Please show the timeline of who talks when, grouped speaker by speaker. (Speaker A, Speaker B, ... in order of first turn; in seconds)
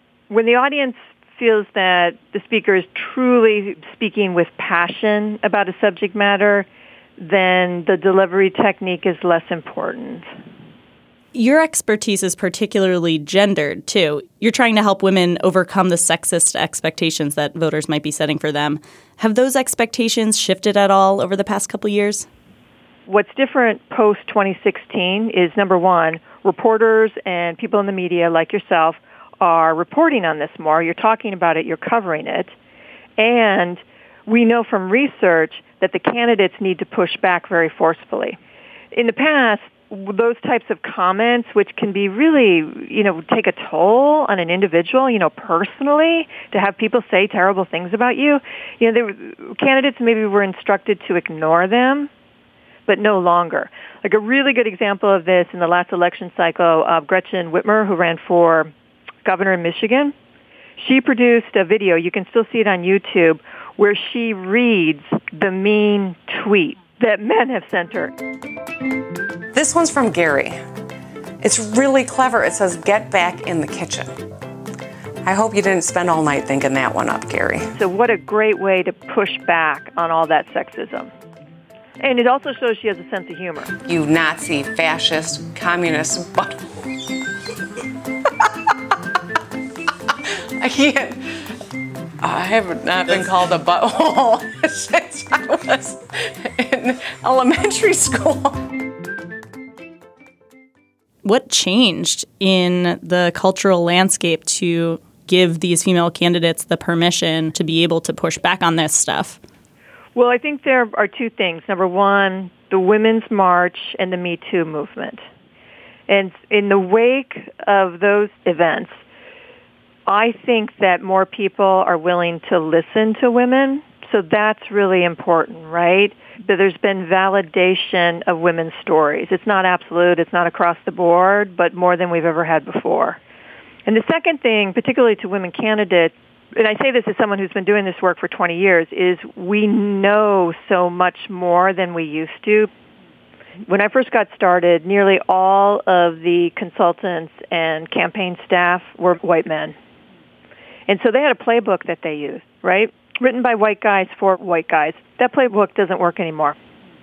Speaker A: 0.3-10.3, 23.1-32.5, 33.2-38.4, 38.9-52.1, 52.9-58.7, 59.2-60.1, 60.8-68.1, 77.8-81.1, 82.0-83.7, 110.1-115.2, 116.1-119.0, 120.1-133.2, 133.8-142.7, 143.7-149.7, 150.9-156.6
Speaker B: 11.3-22.3, 101.2-109.4
Speaker C: 69.5-70.5, 71.4-74.1, 75.2-77.7, 83.8-86.5, 90.6-91.2, 92.2-98.6